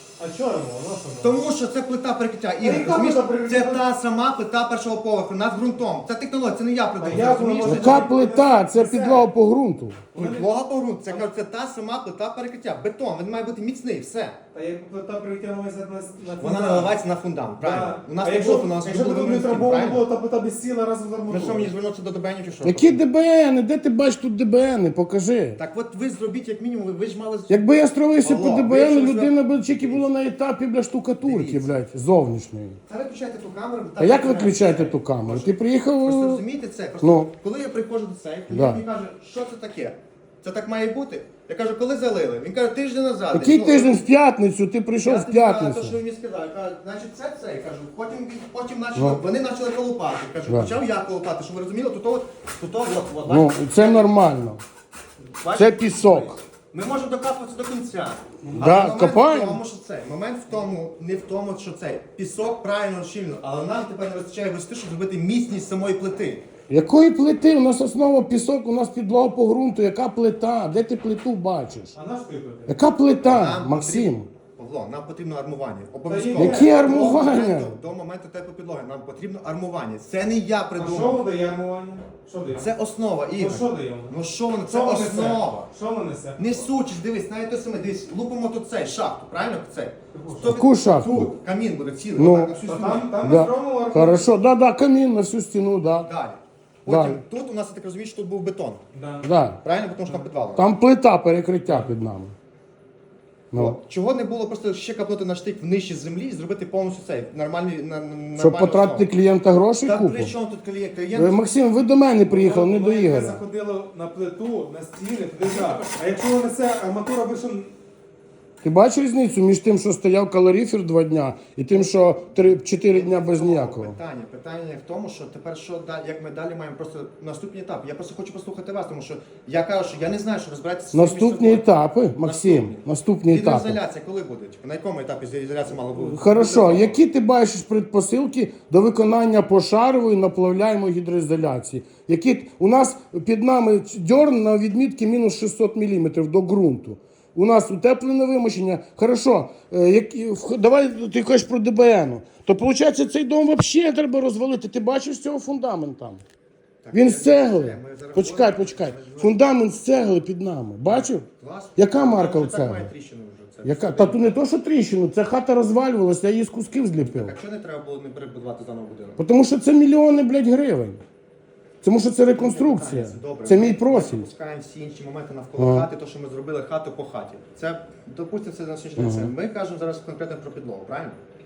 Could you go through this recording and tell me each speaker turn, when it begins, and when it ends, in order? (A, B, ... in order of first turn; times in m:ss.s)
0:00.2-0:01.4 A
0:01.2-0:08.0 B
0:02.6-0:03.8 A
0:07.0-0:09.3 A
0:07.6-0:10.1 C
0:10.1-0:10.5 A
0:10.1-0:14.4 B
0:14.5-0:17.0 A
0:16.4-0:20.0 B
0:17.6-0:21.7 A
0:21.3-0:23.0 B
0:22.6-0:25.6 C
0:25.6-0:27.6 B
0:27.5-0:32.8 C
0:28.2-0:30.1 B
0:31.2-0:31.7 B
0:32.9-0:44.0 B
0:34.0-0:36.4 C
0:37.0-0:37.3 C
0:38.5-0:38.8 C
0:43.3-0:46.0 C
0:45.0-0:54.1 B
0:50.5-0:50.7 C
0:53.3-0:54.6 C
0:55.4-1:06.4 B
0:55.5-0:56.4 C
0:58.5-0:59.6 C
1:06.7-1:11.9 C
1:11.9-1:12.7 A
1:12.7-1:14.3 C
1:13.2-1:21.2 B
1:16.1-1:17.4 A
1:16.4-1:17.8 C
1:20.8-1:22.7 A
1:22.6-1:25.7 B
1:23.3-1:26.6 A
1:26.4-1:33.4 B
1:30.1-1:30.6 A
1:30.4-1:31.3 C
1:32.2-1:32.6 C
1:32.6-1:34.3 A
1:33.2-1:36.1 C
1:36.0-1:38.8 B
1:36.9-1:37.2 C
1:38.9-1:39.3 A
1:39.2-1:39.6 C
1:39.6-1:40.6 B
1:40.6-1:42.3 C
1:43.5-1:49.1 B
1:48.4-1:50.3 C
1:49.8-1:51.4 B
1:51.1-1:53.4 C
1:52.3-1:57.7 A
1:55.4-1:56.1 B
1:58.6-2:03.9 C
2:02.9-2:17.0 B
2:10.9-2:13.8 C
2:16.0-2:36.2 C
2:36.8-2:39.6 B
2:36.9-2:42.9 C
2:40.9-2:44.4 B
2:43.6-2:47.4 C
2:47.0-2:49.2 B
2:49.2-2:51.0 C
2:51.8-2:54.3 C
2:52.3-3:01.2 B
2:55.6-2:55.9 C
2:59.0-2:59.3 C